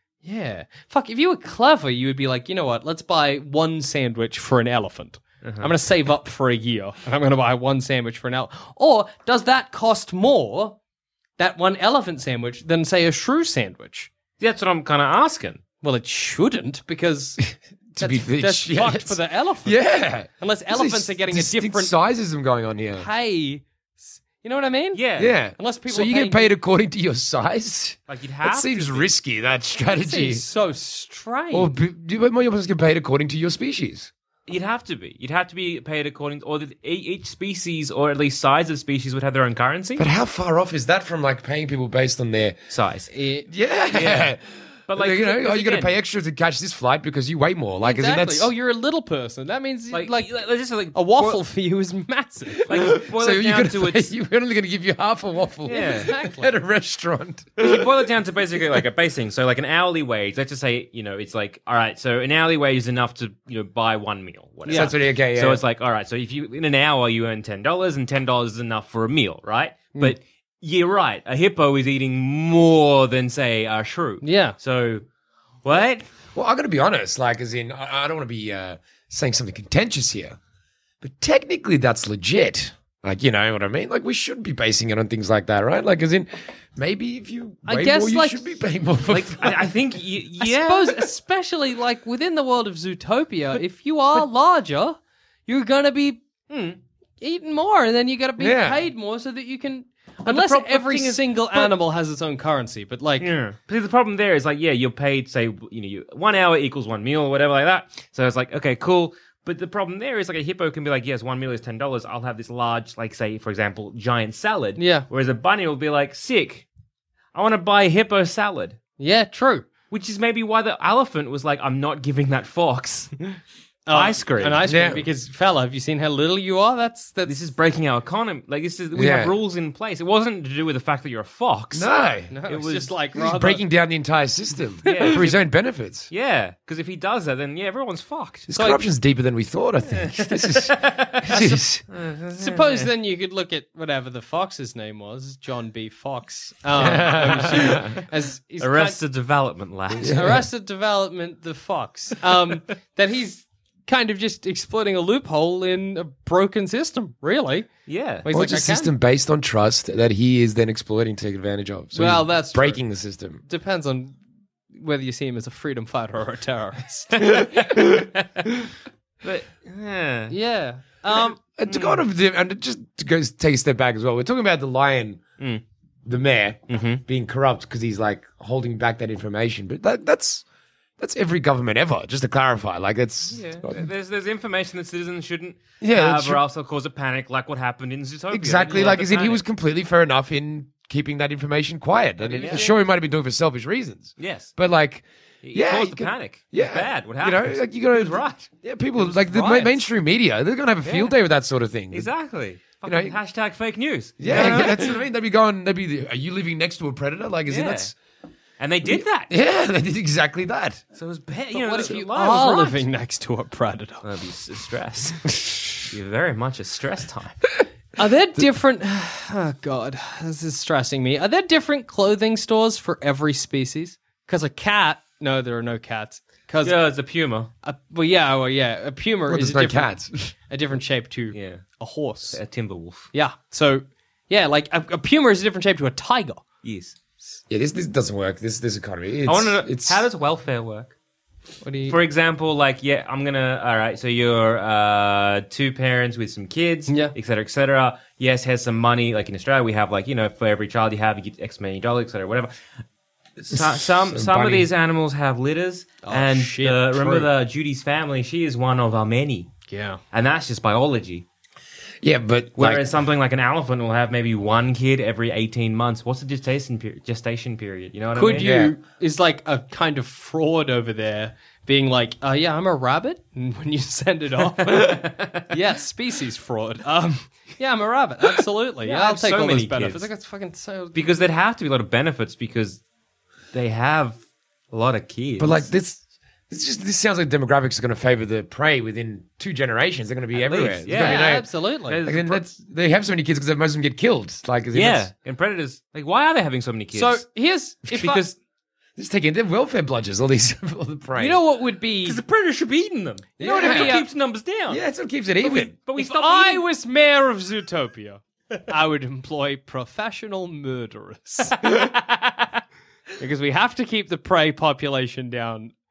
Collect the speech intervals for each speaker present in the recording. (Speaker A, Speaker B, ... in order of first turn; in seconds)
Speaker A: 0.2-10.8, 11.4-14.1, 15.8-17.4, 18.0-21.9, 22.9-25.0, 25.6-26.5, 30.0-31.7, 43.1-43.5, 47.8-50.3, 50.9-52.7, 55.7-56.5, 74.2-74.6, 87.7-88.4, 90.4-96.2, 97.2-103.3, 114.8-115.1, 119.0-119.7, 123.9-127.3, 132.3-133.6, 134.9-135.2, 138.5-138.8, 142.3-149.0, 150.0-157.7, 158.2-158.9, 161.9-162.8, 163.5-164.2, 164.7-167.5, 170.3-171.4, 192.3-192.7, 199.0-199.8, 211.5-214.0, 218.0-226.8, 227.6-232.4, 233.1-236.4, 241.6-242.0, 246.9-247.1, 256.0-257.3, 259.7-260.0, 268.2-281.2, 290.9-292.0, 296.9-298.3, 301.2-302.2, 303.4-304.1, 306.0-311.7, 313.2-315.7
Speaker B: 5.4-5.7, 14.4-15.6, 24.9-25.4, 28.1-29.1, 34.5-40.1, 42.7-43.1, 43.9-44.3, 44.9-45.9, 49.9-51.4, 52.7-54.1, 55.6-56.1, 57.6-75.0, 75.6-76.0, 89.1-91.1, 96.5-96.8, 100.2-101.8, 103.2-116.7, 117.3-118.8, 119.9-123.2, 123.9-124.7, 127.3-131.9, 132.4-133.0, 134.8-135.4, 136.1-138.5, 139.9-142.9, 147.1-148.0, 148.6-150.3, 157.9-158.3, 167.3-168.5, 169.2-170.3, 171.7-172.0, 176.7-177.0, 183.3-189.4, 192.2-192.8, 194.2-194.5, 195.4-198.5, 200.8-201.1, 201.9-205.0, 207.5-207.9, 208.6-209.3, 210.9-212.8, 214.0-217.4, 226.6-227.5, 231.3-231.6, 232.3-233.1, 236.6-236.9, 239.3-240.9, 241.9-252.6, 253.4-259.5, 260.1-261.2, 262.6-268.5, 274.6-275.5, 278.8-280.1, 280.9-282.8, 283.5-284.2, 284.7-285.7, 290.3-292.5, 294.7-297.3, 297.9-298.3, 302.0-304.8, 305.4-306.6, 311.6-312.6
Speaker C: 17.9-23.1, 25.2-30.4, 31.5-34.1, 40.0-42.6, 43.5-48.5, 52.6-58.1, 64.7-65.6, 76.3-80.4, 81.0-89.7, 98.4-98.8, 124.7-125.1, 128.9-129.3, 131.7-132.3, 133.2-136.1, 138.5-141.8, 146.8-147.9, 150.0-150.4, 158.3-163.4, 171.6-175.2, 176.1-180.4, 181.0-183.9, 185.8-186.4, 188.3-202.1, 202.8-203.2, 204.2-207.9, 208.9-210.8, 229.3-230.1, 237.5-240.1, 253.5-254.7, 262.0-262.9, 268.4-268.8, 285.4-291.5, 292.0-295.1, 299.0-301.4, 303.4-304.1, 304.7-305.7